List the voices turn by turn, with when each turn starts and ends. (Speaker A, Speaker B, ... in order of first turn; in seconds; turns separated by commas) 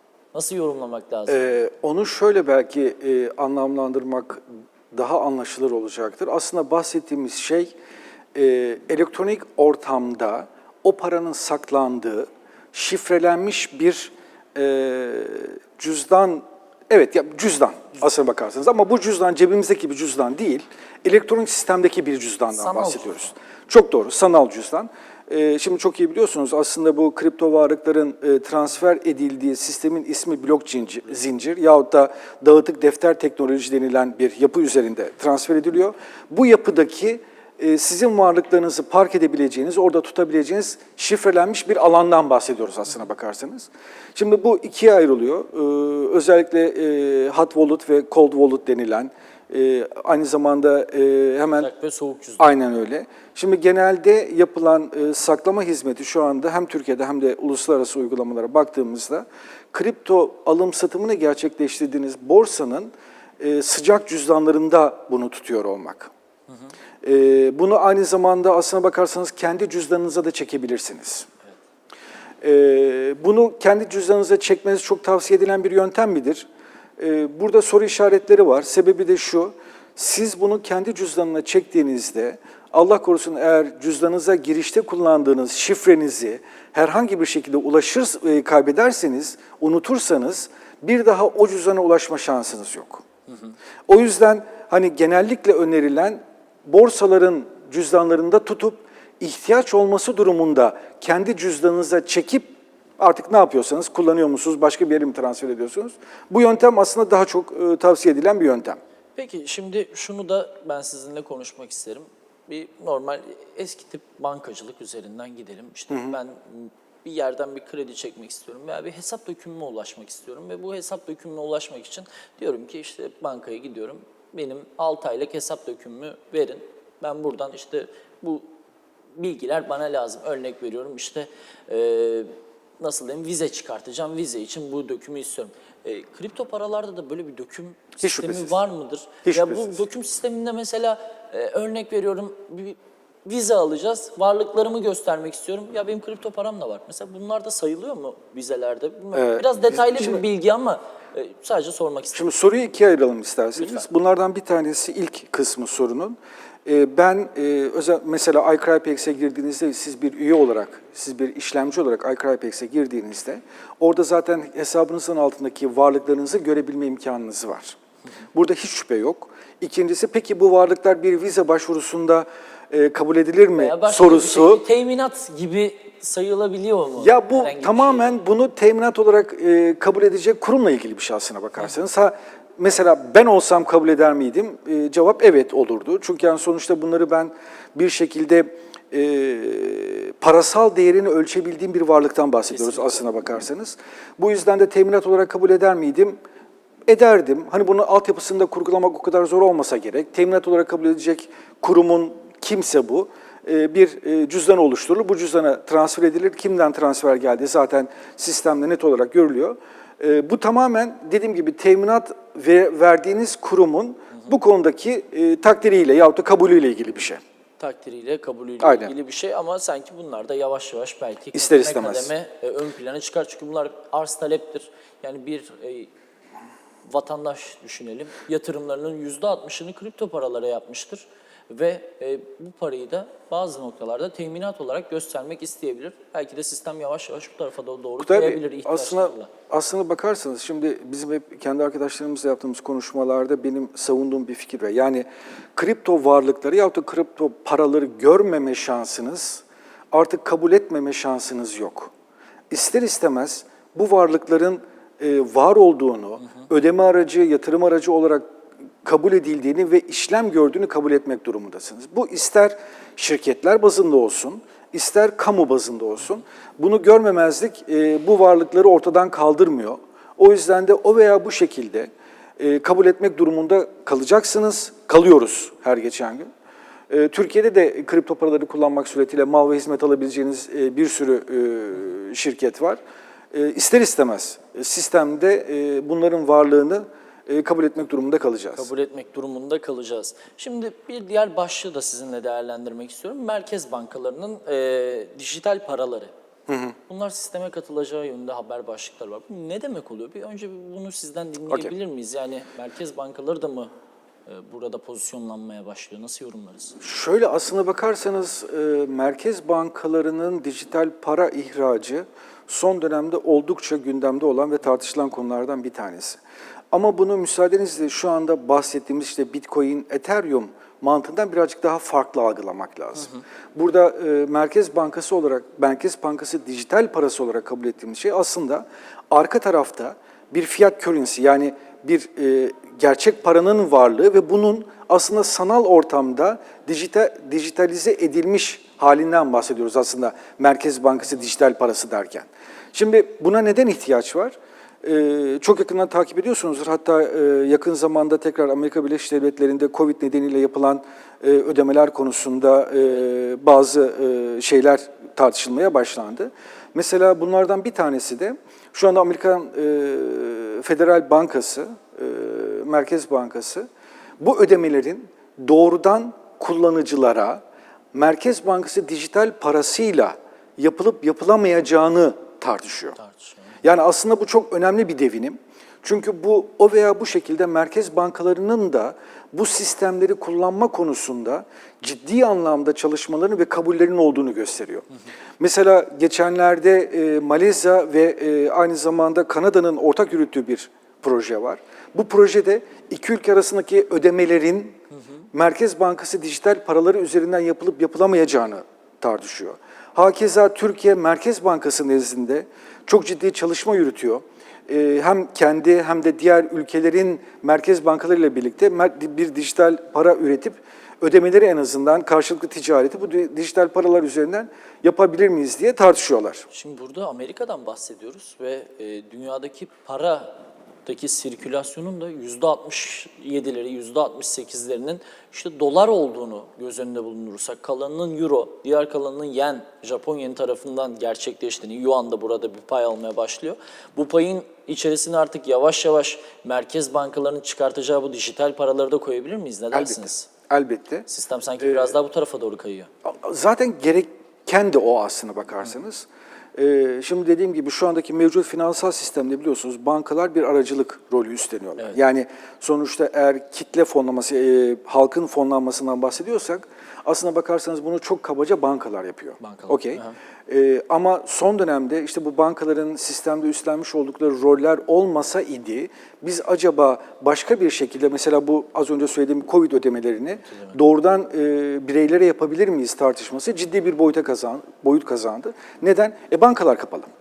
Speaker A: 0.3-1.5, Speaker B: 1.3-7.8, Speaker B: 8.3-51.7, Speaker A: 22.5-23.2, Speaker A: 51.6-52.5, Speaker B: 52.4-66.1, Speaker B: 67.0-71.3, Speaker B: 72.4-93.0, Speaker B: 93.9-108.8, Speaker A: 109.2-128.4, Speaker B: 115.9-116.2, Speaker A: 129.2-152.2, Speaker B: 138.0-138.6, Speaker B: 139.2-139.8, Speaker B: 149.1-150.2, Speaker B: 152.1-167.8, Speaker B: 168.3-174.6, Speaker A: 173.6-178.2, Speaker B: 177.0-196.2, Speaker A: 192.5-193.1, Speaker B: 196.9-217.2, Speaker A: 217.6-225.9, Speaker B: 218.6-218.9, Speaker B: 221.3-222.1, Speaker A: 226.9-239.3, Speaker B: 238.0-251.9, Speaker B: 252.5-258.2, Speaker B: 258.8-276.3, Speaker B: 276.9-282.8, Speaker B: 283.3-288.7, Speaker A: 288.6-296.1, Speaker B: 296.5-296.7, Speaker A: 296.9-303.7, Speaker A: 304.2-306.8, Speaker B: 306.8-316.2, Speaker B: 316.7-363.6, Speaker B: 364.2-367.4, Speaker B: 367.9-373.0, Speaker A: 373.0-373.6, Speaker B: 373.6-384.9, Speaker B: 385.4-394.8, Speaker B: 395.3-416.4, Speaker A: 416.5-440.3, Speaker B: 439.7-441.1, Speaker A: 441.1-442.9, Speaker B: 441.6-441.9, Speaker B: 443.0-477.1, Speaker A: 459.4-460.1, Speaker A: 470.4-470.8